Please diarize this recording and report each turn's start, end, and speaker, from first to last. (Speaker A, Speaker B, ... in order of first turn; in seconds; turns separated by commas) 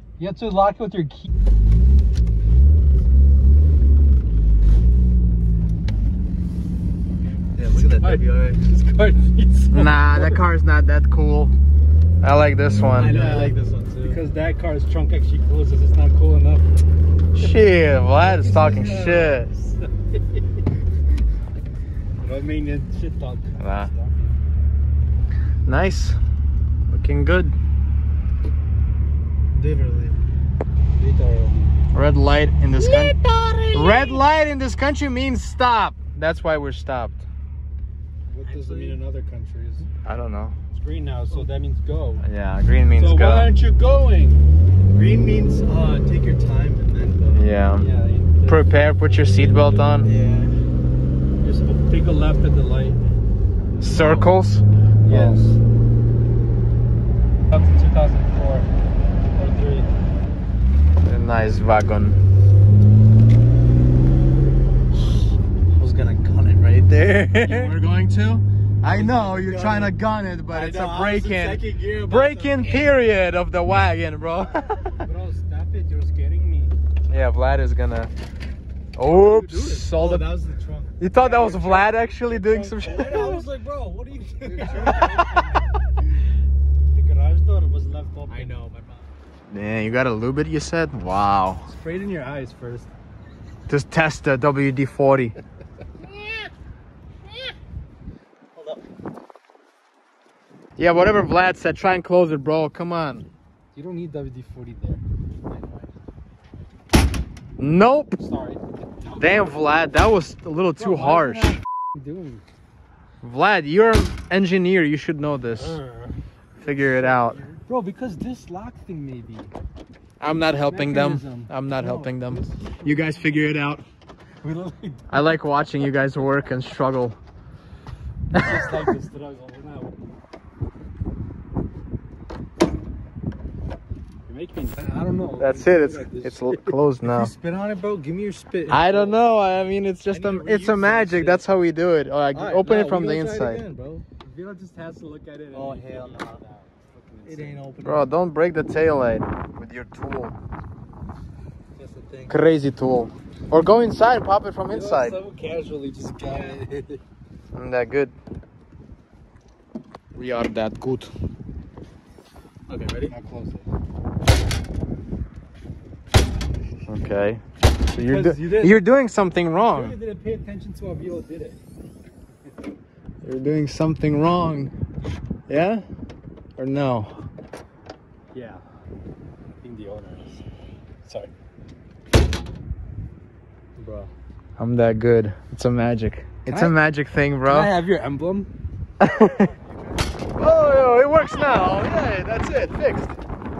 Speaker A: 0.2-1.3, Speaker B: 7.5-8.6, Speaker A: 7.7-10.3, Speaker C: 9.7-11.5, Speaker C: 12.2-13.2, Speaker B: 12.9-14.2, Speaker A: 13.1-16.6, Speaker C: 17.3-19.5, Speaker A: 18.2-19.6, Speaker A: 22.2-24.3, Speaker C: 23.6-23.9, Speaker C: 25.6-26.2, Speaker C: 26.9-27.5, Speaker B: 29.5-30.2, Speaker A: 31.0-31.7, Speaker C: 31.9-33.1, Speaker B: 32.8-34.2, Speaker C: 33.7-37.2, Speaker A: 38.3-39.9, Speaker B: 38.4-39.0, Speaker C: 40.0-40.5, Speaker A: 40.7-42.2, Speaker C: 42.2-43.5, Speaker A: 42.9-44.4, Speaker B: 44.9-47.4, Speaker C: 47.3-47.9, Speaker A: 47.8-49.9, Speaker C: 48.4-50.1, Speaker B: 50.0-50.5, Speaker A: 51.4-53.0, Speaker C: 53.8-55.4, Speaker A: 53.9-54.3, Speaker A: 55.0-55.6, Speaker A: 57.5-58.6, Speaker A: 59.3-59.9, Speaker C: 61.0-62.2, Speaker B: 65.7-67.8, Speaker C: 67.4-74.8, Speaker B: 68.8-70.0, Speaker B: 70.5-73.0, Speaker A: 75.0-76.8, Speaker C: 77.1-78.1, Speaker C: 79.0-80.2, Speaker B: 79.1-81.9, Speaker C: 81.0-83.4, Speaker A: 81.2-83.4, Speaker B: 82.8-85.5, Speaker A: 84.4-85.7, Speaker A: 86.9-88.5, Speaker B: 88.3-89.1, Speaker C: 89.5-91.7, Speaker A: 91.7-92.9, Speaker C: 93.7-95.3, Speaker B: 98.5-98.8, Speaker C: 100.8-103.3, Speaker A: 103.7-105.0, Speaker B: 105.4-105.9, Speaker C: 107.6-108.2, Speaker A: 108.2-109.5, Speaker C: 109.2-111.5, Speaker A: 110.8-112.4, Speaker C: 113.2-115.8, Speaker A: 115.6-116.1, Speaker C: 116.6-117.4, Speaker B: 117.1-117.6, Speaker A: 117.6-119.5, Speaker C: 120.2-123.8, Speaker A: 120.6-122.9, Speaker A: 124.4-125.0, Speaker C: 125.1-127.2, Speaker A: 128.3-130.2, Speaker A: 134.3-136.7, Speaker C: 135.4-137.3, Speaker B: 137.0-138.8, Speaker A: 138.7-139.2, Speaker C: 138.7-143.6, Speaker B: 140.1-141.5, Speaker B: 142.3-144.0, Speaker A: 142.6-143.1, Speaker A: 144.2-147.6, Speaker B: 145.5-146.4, Speaker B: 147.2-148.1, Speaker C: 147.8-150.3, Speaker A: 151.8-152.3, Speaker C: 152.3-155.2, Speaker A: 154.7-157.0, Speaker B: 156.2-156.6, Speaker C: 157.5-158.1, Speaker C: 160.1-161.1, Speaker B: 162.7-163.1, Speaker A: 163.1-163.7, Speaker C: 166.9-169.9, Speaker A: 167.9-168.8, Speaker A: 169.7-171.6, Speaker C: 173.2-174.7, Speaker C: 175.5-175.8, Speaker C: 176.6-177.2, Speaker A: 178.3-178.6, Speaker A: 179.6-180.4, Speaker A: 181.1-181.3, Speaker A: 183.8-184.1, Speaker C: 184.6-187.8, Speaker A: 186.4-186.8, Speaker A: 187.4-188.5, Speaker C: 189.0-189.5, Speaker B: 189.4-189.9, Speaker C: 190.4-193.1